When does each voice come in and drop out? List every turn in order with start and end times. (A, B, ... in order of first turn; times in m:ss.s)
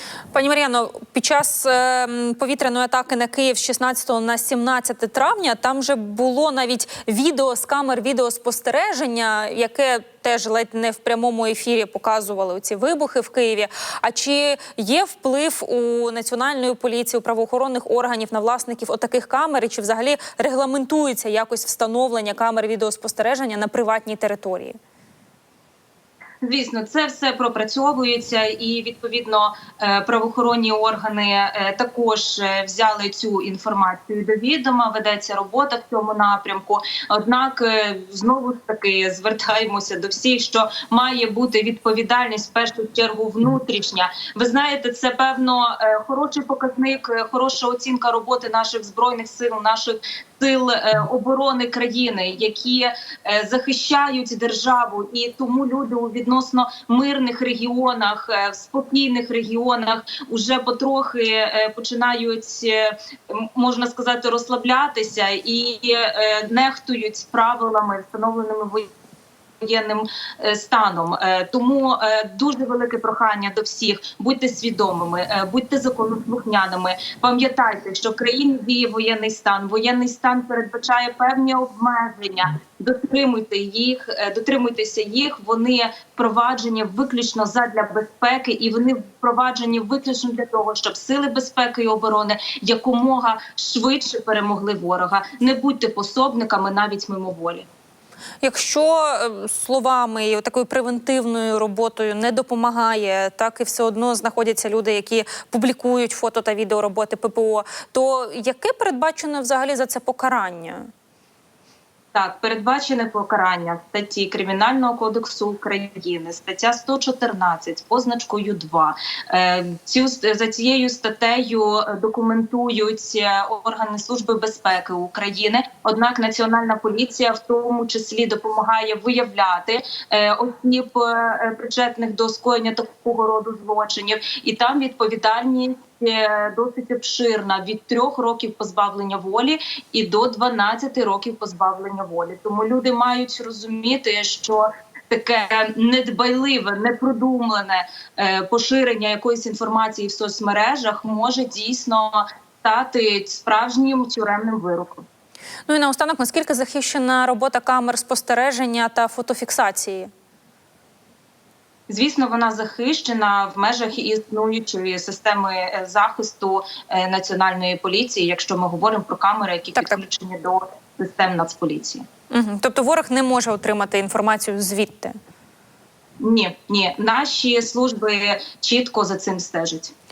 0:00.3-0:24.8 A
0:26.4-1:08.9 B
1:09.6-1:37.7 B
1:38.4-1:50.9 A
1:52.1-2:35.0 B
2:35.7-2:40.1 A
2:41.9-2:52.0 B
2:49.8-2:50.0 A
2:52.3-2:55.1 A
2:56.2-2:59.9 B